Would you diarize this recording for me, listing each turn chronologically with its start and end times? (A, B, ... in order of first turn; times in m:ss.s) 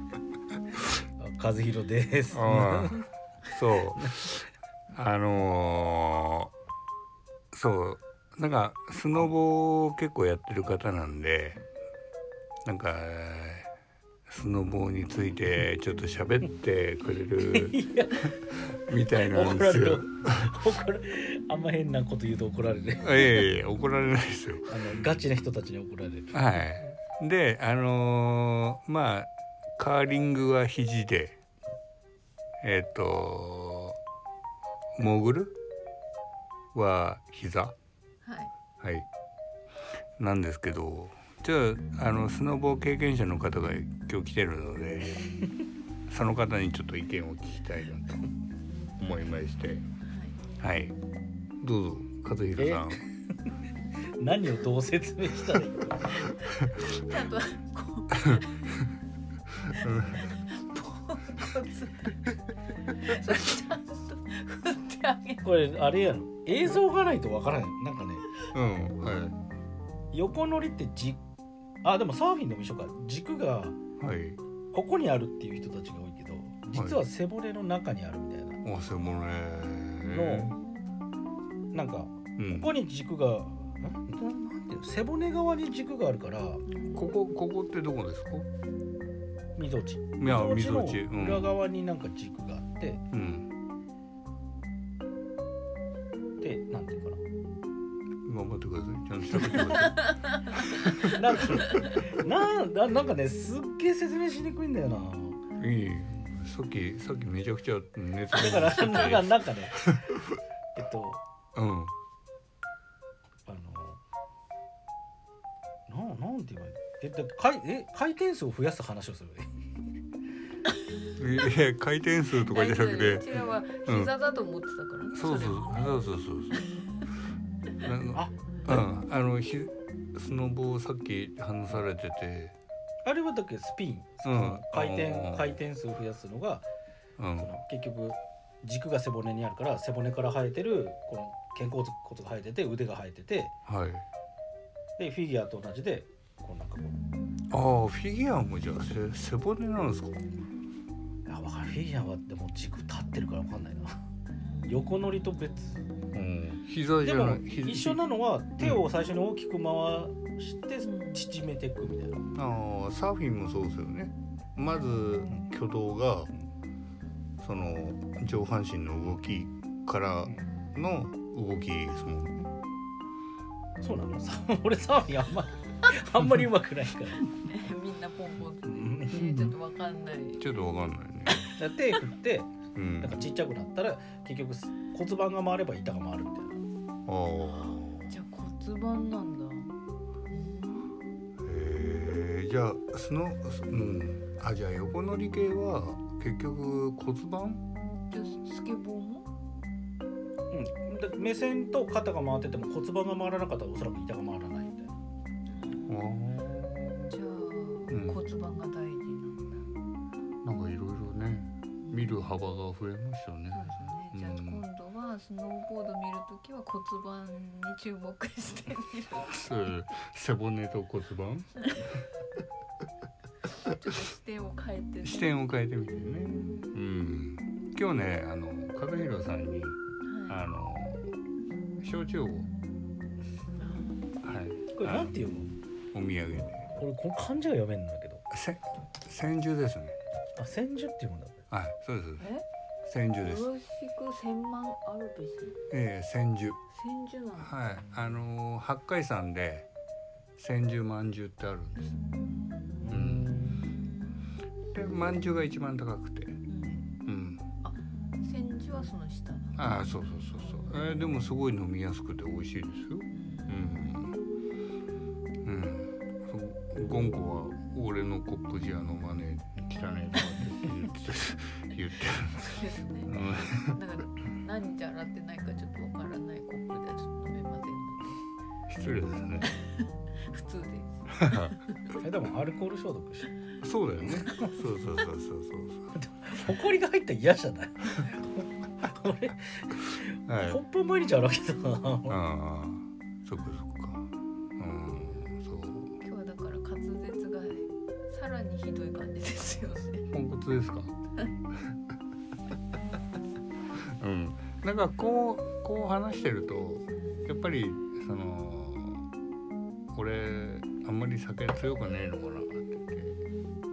0:01.2-0:03.0 A
0:02.3-0:06.5 B
0:04.0-0:04.3 A
0:07.5-0:11.6 B
0:12.6-0:13.7 B
0:14.3-0:20.6 B
0:17.2-0:18.3 A
0:18.9-0:23.5 A
0:23.0-0:24.8 B
0:24.7-0:26.4 A
0:26.3-0:31.4 B
0:32.6-0:34.0 B
0:35.0-0:35.5 B
0:36.7-0:37.8 B
0:38.2-0:38.5 C
0:38.8-0:39.1 B
0:40.2-0:45.4 B
0:46.1-0:48.3 B
0:49.0-0:49.9 B
0:50.0-0:50.4 C
0:50.6-0:51.0 B
0:51.6-0:53.1 B
0:52.6-0:53.1 A
0:54.2-0:56.3 A
0:56.6-0:58.8 C
0:59.8-1:05.4 C
0:59.8-1:00.3 B
1:05.4-1:08.4 A
1:08.5-1:09.4 B
1:10.1-1:11.2 A
1:11.8-1:13.8 A
1:14.0-1:14.4 B
1:14.7-1:18.6 A
1:16.7-1:17.0 B
1:18.6-1:20.6 B
1:20.1-1:20.6 A
1:20.5-1:20.9 C
1:21.7-1:26.6 A
1:22.4-1:22.7 B
1:26.6-1:27.2 C
1:26.9-1:28.5 B
1:29.6-1:33.0 A
1:30.2-1:31.5 B
1:33.1-1:33.5 B
1:36.4-1:37.2 A
1:38.2-1:40.9 B
1:39.3-1:39.9 A
1:39.8-1:42.0 C
1:40.9-1:45.4 A
1:45.6-1:50.2 B
1:48.3-1:50.0 A
1:50.8-1:51.2 A
1:51.5-1:51.9 B
1:53.4-1:54.0 A
1:55.9-1:59.5 A
2:01.2-2:04.1 B
2:02.4-2:06.0 C
2:05.1-2:06.7 B
2:07.8-2:12.6 B
2:08.1-2:08.8 A
2:13.0-2:16.6 A
2:14.2-2:15.6 B
2:17.2-2:17.5 B
2:17.4-2:23.5 A
2:23.6-2:24.0 B
2:25.0-2:27.0 A
2:27.5-2:30.2 B
2:31.3-2:33.9 A
2:34.4-2:34.9 C
2:34.6-2:35.9 A
2:36.1-2:38.0 B
2:37.0-2:42.2 A
2:38.6-2:38.8 B
2:40.8-2:41.3 C
2:42.3-2:46.3 B
2:47.4-2:52.4 B
2:53.8-2:57.3 A
2:57.4-3:00.4 C
2:58.6-2:59.2 A
2:59.1-2:59.5 B
3:00.4-3:01.5 B
3:01.4-3:06.6 A
3:02.7-3:03.2 B
3:07.0-3:08.2 B
3:08.1-3:09.8 C
3:10.3-3:11.0 C
3:11.4-3:17.6 B
3:18.1-3:19.3 C
3:20.5-3:25.0 A
3:25.5-3:26.0 C
3:25.8-3:27.2 B
3:27.1-3:29.7 C
3:27.9-3:28.2 B
3:30.4-3:34.6 B
3:31.8-3:32.2 C
3:33.5-3:39.4 C
3:39.3-3:41.6 B
3:43.7-3:45.3 C
3:45.0-3:51.1 B
3:50.0-3:50.4 C
3:51.8-3:52.5 B
3:53.6-3:54.1 C
3:54.2-3:55.2 B
3:54.7-3:55.5 A
3:55.9-3:56.7 B
3:56.6-3:58.2 A
3:58.3-4:00.0 B
4:00.4-4:01.4 A
4:01.5-4:02.3 B
4:02.2-4:02.4 C
4:02.8-4:03.5 B
4:03.2-4:05.6 C
4:05.7-4:06.6 B
4:06.7-4:07.5 C
4:07.4-4:09.7 B
4:10.4-4:12.0 B
4:12.3-4:12.8 C
4:12.8-4:13.7 A
4:12.9-4:13.6 B
4:13.6-4:14.2 C
4:14.7-4:16.4 B
4:16.5-4:16.8 C
4:17.0-4:17.4 B
4:17.6-4:19.6 C
4:19.5-4:24.1 B
4:23.1-4:23.6 C
4:25.4-4:33.8 B
4:32.3-4:38.2 C
4:38.7-4:39.5 B
4:39.5-4:42.0 C
4:41.2-4:41.5 B
4:42.0-4:43.3 A
4:43.6-4:46.0 B
4:44.0-4:44.5 A
4:46.0-4:52.2 A
4:50.3-4:50.6 B
4:52.1-4:56.0 B
4:56.0-5:00.0 C
5:00.1-5:01.0 B
5:03.8-5:09.1 B
5:09.9-5:13.2 B